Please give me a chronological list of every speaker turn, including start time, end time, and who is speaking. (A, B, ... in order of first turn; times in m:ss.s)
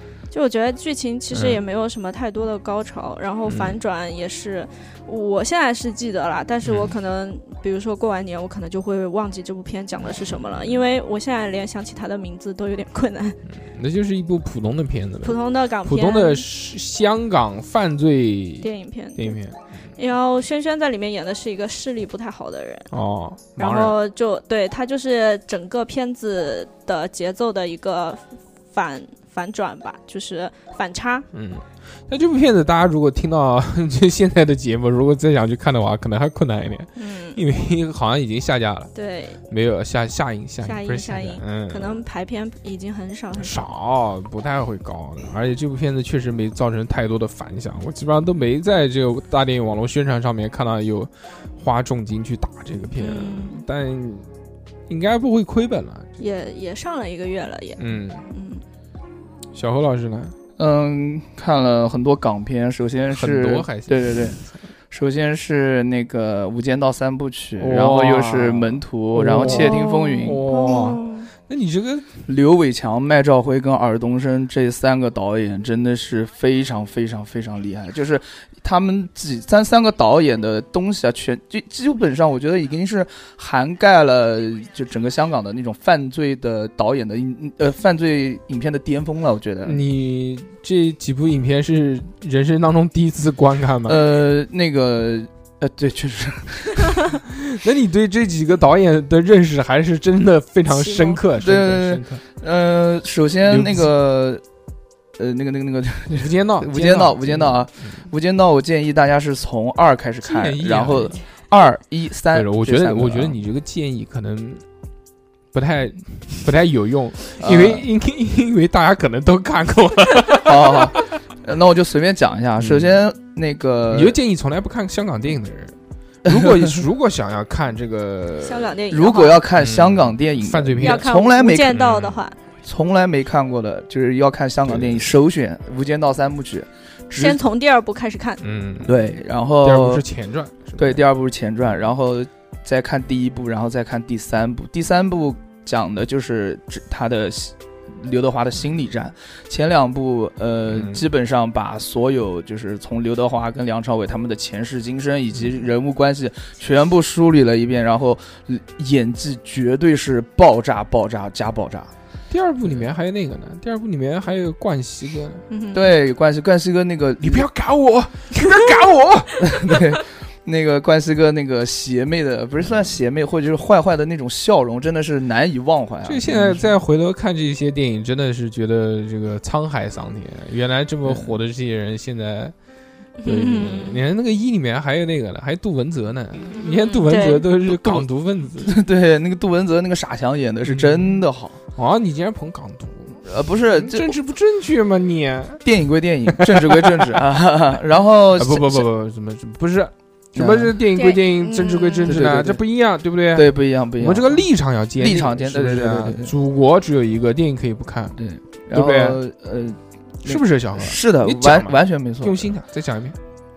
0:00.3-0:13.4 A
0:01.3-0:01.6 B
0:03.5-0:03.8 B
0:06.6-0:06.9 B
0:13.5-0:19.6 B
0:15.2-0:16.4 A
0:18.6-0:19.4 A
0:20.0-0:22.9 A
0:22.9-0:24.0 B
0:23.6-0:31.3 A
0:31.3-0:38.9 B
0:37.0-0:37.4 A
0:38.9-0:39.4 A
0:39.5-0:42.0 B
0:40.6-0:43.7 A
0:43.4-0:54.3 B
0:53.0-0:53.6 A
0:54.9-0:56.2 B
0:56.2-0:58.6 A
0:57.8-0:58.3 B
0:59.5-1:00.4 B
1:00.6-1:10.4 C
1:03.1-1:04.6 B
1:07.6-1:12.2 B
1:09.4-1:11.3 A
1:12.2-1:29.8 C
1:29.6-1:34.0 B
1:33.9-1:37.0 C
1:37.1-1:42.2 B
1:40.7-1:41.2 A
1:41.4-1:44.4 C
1:43.4-1:43.9 B
1:45.2-1:53.4 C
1:46.1-1:48.0 B
1:50.2-1:51.2 B
1:52.3-1:54.6 B
1:55.5-2:01.2 B
1:57.4-1:57.9 C
2:00.4-2:04.2 C
2:02.6-2:03.0 B
2:03.9-2:08.8 B
2:08.4-2:09.4 A
2:08.9-2:11.8 C
2:09.6-2:11.1 B
2:10.8-2:12.4 A
2:11.7-2:12.2 B
2:12.6-2:17.4 C
2:14.6-2:15.1 B
2:17.2-2:18.4 A
2:18.4-2:19.0 B
2:18.8-2:20.0 C
2:19.6-2:21.0 B
2:20.8-2:41.9 C
2:30.7-2:31.0 B
2:35.3-2:35.6 B
2:42.3-2:45.4 B
2:45.5-2:45.9 A
2:45.7-2:47.5 C
2:47.2-2:50.0 B
2:49.4-2:56.7 C
2:56.0-3:02.6 B
3:01.0-3:01.4 C
3:03.2-3:04.0 A
3:03.2-3:08.8 B
3:06.5-3:07.5 A
3:07.6-3:08.1 C
3:08.6-3:11.6 C
3:10.6-3:11.2 B
3:11.8-3:15.6 B
3:13.2-3:14.2 C
3:15.6-3:18.9 C
3:16.3-3:17.2 B
3:18.3-3:28.2 B
3:20.4-3:20.8 C
3:20.9-3:22.2 A
3:22.0-3:22.6 C
3:23.3-3:26.4 C
3:28.2-3:32.6 C
3:28.7-3:29.2 B
3:30.2-3:33.2 B